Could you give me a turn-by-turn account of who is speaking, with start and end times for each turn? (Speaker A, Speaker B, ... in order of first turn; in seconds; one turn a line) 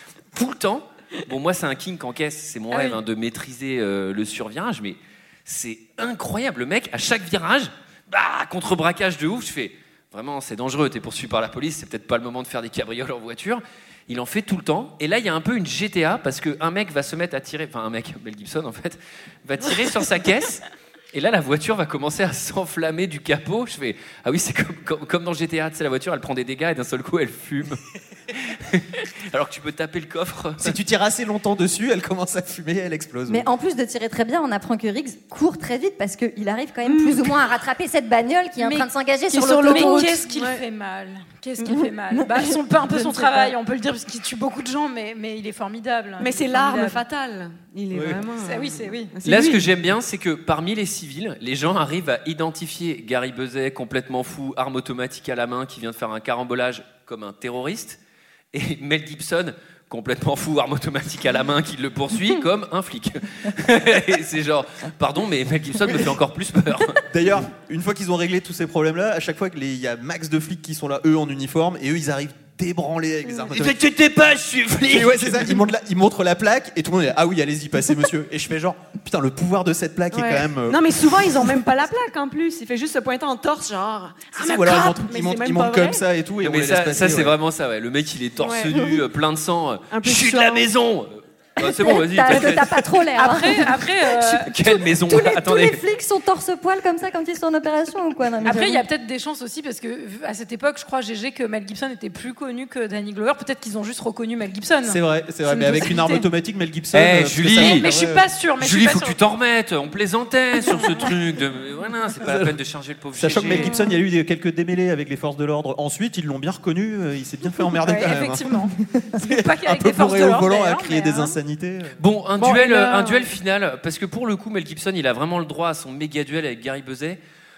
Speaker A: 0.3-30.8
Speaker B: 30.6-33.5
Speaker C: 33.3-40.1
Speaker D: 36.8-37.3
Speaker E: 38.6-38.9
Speaker D: 39.3-40.6
Speaker E: 39.6-47.0
Speaker D: 41.6-43.5
Speaker D: 46.2-49.7
Speaker B: 47.9-48.2
Speaker E: 48.4-49.1
Speaker A: 49.2-58.0
Speaker A: 58.5-67.0
Speaker B: 67.1-73.8
Speaker A: 73.5-75.6
Speaker B: 74.9-81.4
Speaker D: 80.1-86.0
Speaker B: 84.3-87.3
Speaker A: 86.4-92.8
Speaker D: 88.4-88.8
Speaker D: 89.9-90.7
Speaker C: 91.6-93.8
Speaker E: 93.1-94.5
Speaker A: 94.2-95.8
Speaker C: 94.6-98.8
Speaker E: 98.4-106.2
Speaker B: 104.8-108.2
Speaker A: 106.9-107.9
Speaker E: 107.6-109.2
Speaker A: 108.6-113.7
Speaker B: 112.2-112.5
Speaker B: 113.1-122.0
Speaker E: 117.8-121.4
Speaker A: 122.0-127.2
Speaker D: 122.4-123.3